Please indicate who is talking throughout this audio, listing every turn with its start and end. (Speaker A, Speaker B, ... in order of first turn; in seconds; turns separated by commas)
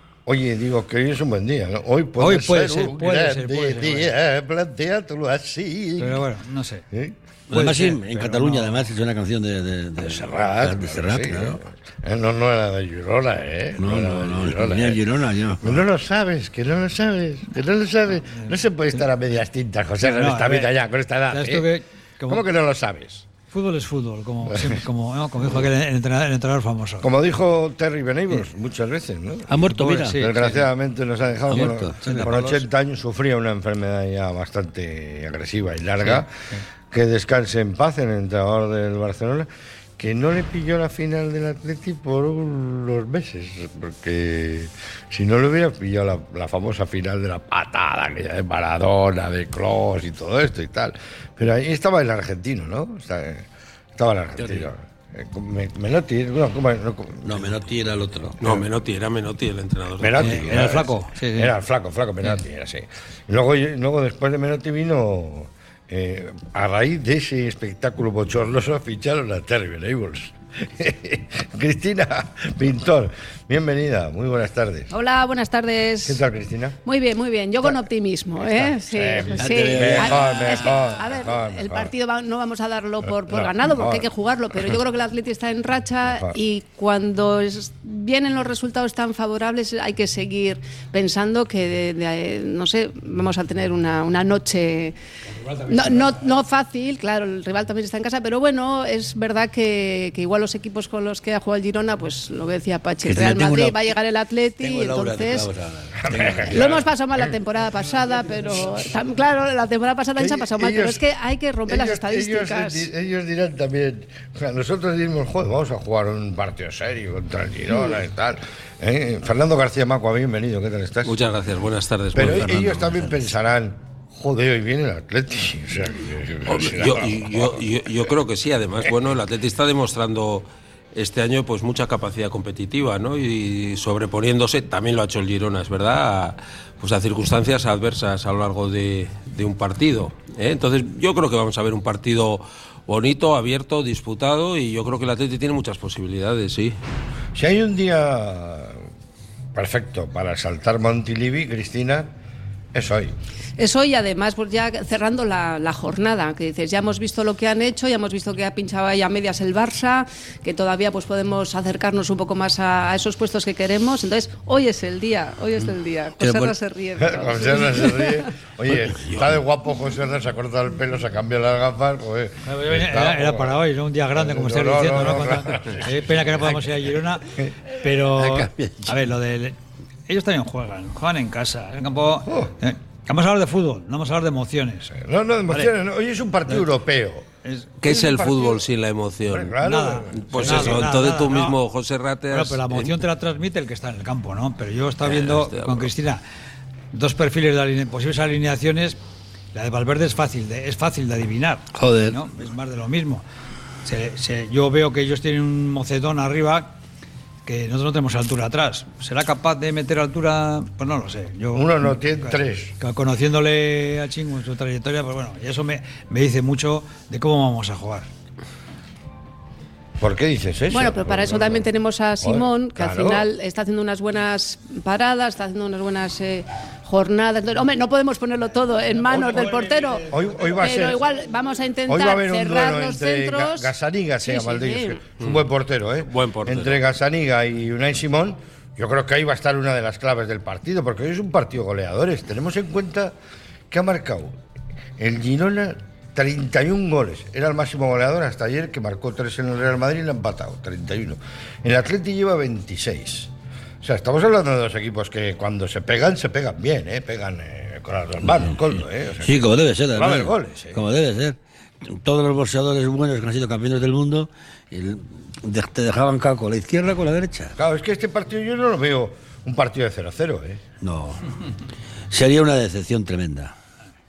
Speaker A: 0.2-6.3, Speaker B: 2.2-4.1, Speaker B: 6.0-6.8, Speaker A: 6.9-7.2, Speaker C: 7.5-11.6, Speaker B: 7.5-8.8, Speaker A: 10.0-15.0, Speaker C: 13.8-15.8, Speaker A: 15.6-21.7, Speaker B: 18.3-18.6, Speaker B: 20.0-20.7, Speaker B: 21.3-22.4, Speaker A: 22.3-23.3, Speaker B: 23.5-27.1, Speaker A: 24.4-24.8, Speaker A: 27.0-36.3, Speaker C: 29.5-30.6, Speaker B: 29.7-30.5, Speaker C: 31.5-32.6, Speaker B: 32.0-32.5, Speaker A: 36.9-39.5, Speaker A: 40.0-57.5, Speaker C: 57.2-58.4, Speaker D: 58.4-60.4, Speaker A: 60.0-74.9, Speaker B: 60.2-61.5, Speaker E: 74.9-76.2, Speaker A: 76.0-76.8, Speaker E: 76.8-94.9, Speaker A: 78.4-81.9, Speaker C: 79.3-80.6, Speaker A: 83.0-84.8, Speaker A: 86.1-86.3, Speaker E: 95.6-105.5, Speaker C: 103.0-103.8, Speaker C: 104.6-106.8, Speaker A: 106.0-107.3, Speaker E: 106.5-112.9, Speaker A: 110.2-111.0, Speaker A: 111.7-121.2, Speaker D: 121.0-122.8, Speaker A: 122.1-127.6, Speaker C: 122.3-123.0, Speaker D: 126.5-146.8, Speaker A: 147.3-148.8, Speaker A: 149.5-152.1, Speaker A: 152.7-153.1, Speaker E: 153.6-168.3, Speaker C: 166.2-166.5, Speaker A: 167.0-173.6, Speaker C: 168.9-169.3, Speaker B: 172.4-179.6, Speaker A: 174.1-177.5, Speaker C: 178.1-179.0, Speaker B: 180.1-184.9, Speaker A: 182.2-182.5, Speaker A: 184.9-187.2, Speaker B: 187.4-187.7, Speaker D: 187.8-189.6, Speaker A: 187.8-188.6, Speaker A: 189.3-190.9, Speaker B: 189.6-191.6, Speaker D: 190.1-192.9, Speaker B: 192.3-196.2, Speaker D: 195.0-195.9, Speaker B: 196.9-199.0, Speaker B: 199.5-203.2, Speaker C: 201.7-202.2, Speaker B: 203.8-206.7, Speaker B: 207.4-218.1, Speaker A: 211.5-212.7, Speaker A: 220.0-221.7, Speaker E: 220.7-233.7, Speaker A: 222.2-223.2, Speaker A: 229.1-229.5, Speaker A: 230.1-231.0, Speaker A: 231.9-243.1, Speaker E: 234.2-235.0, Speaker D: 235.2-235.4, Speaker D: 236.0-236.8, Speaker A: 243.7-244.4, Speaker A: 245.0-260.8, Speaker C: 259.2-267.6, Speaker A: 267.6-270.6, Speaker C: 270.8-271.4, Speaker C: 272.1-273.5